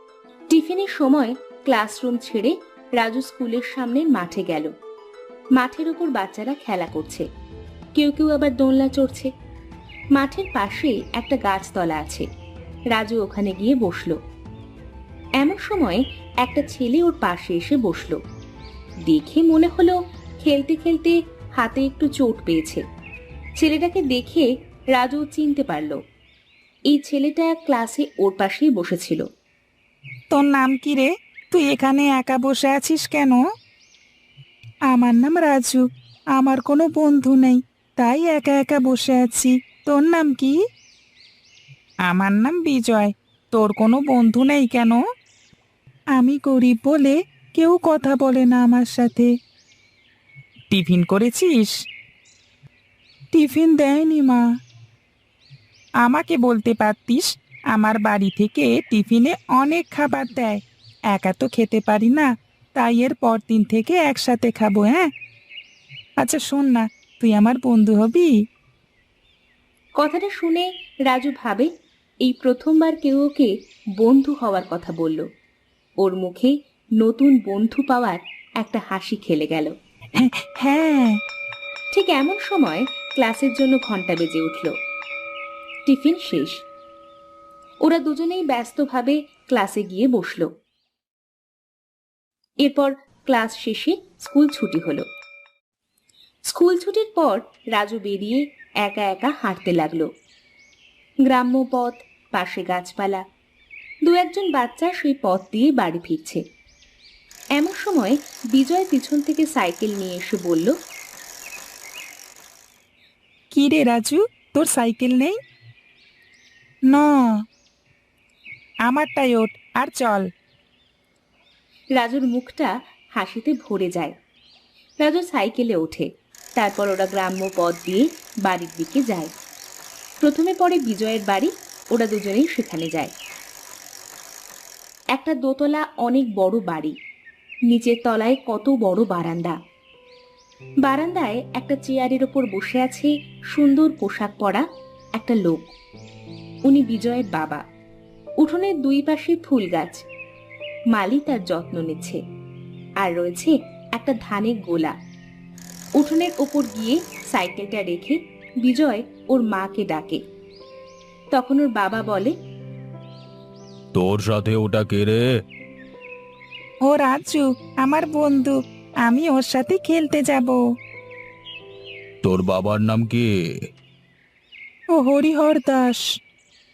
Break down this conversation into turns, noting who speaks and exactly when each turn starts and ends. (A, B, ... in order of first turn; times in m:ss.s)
0:00.5-0:04.7 A
0:05.6-0:07.2 A
0:08.0-0:09.3 A
0:10.2-0:12.2 A
0:12.9-0:14.2 A
0:15.4-0:18.2 A
0:19.1-0:22.8 A
0:23.6-0:26.0 A
0:26.9-0:29.2 A
0:30.3-0:33.4 B
0:34.9-0:35.8 B
0:36.4-0:40.6 B
0:42.1-0:45.0 B
0:46.2-0:49.3 B
0:50.7-0:51.7 B
0:53.3-0:54.4 B
0:56.0-1:05.1 B
1:06.2-1:08.3 B
1:10.0-1:11.7 A
1:12.2-1:15.2 A
1:16.0-1:19.7 A
1:20.2-1:21.2 B
1:21.9-1:24.7 A
1:25.9-1:26.5 A
1:27.8-1:30.5 A
1:32.6-1:35.0 A
1:36.5-1:40.1 A
1:41.3-1:43.2 A
1:44.1-1:46.4 A
1:47.6-1:50.7 A
1:53.5-1:55.4 B
1:56.9-1:57.2 B
1:58.9-2:00.3 B
2:02.0-2:04.1 A
2:05.0-2:09.3 A
2:10.2-2:13.1 A
2:15.1-2:16.9 A
2:17.7-2:19.6 A
2:20.8-2:24.6 A
2:25.2-2:25.7 A
2:26.7-2:27.6 A
2:28.4-2:30.0 A
2:30.9-2:32.2 A
2:33.0-2:34.9 A
2:36.0-2:40.2 A
2:41.3-2:42.3 A
2:43.9-2:45.2 C
2:46.9-2:50.6 B
2:52.2-2:53.2 C
2:54.9-2:56.0 B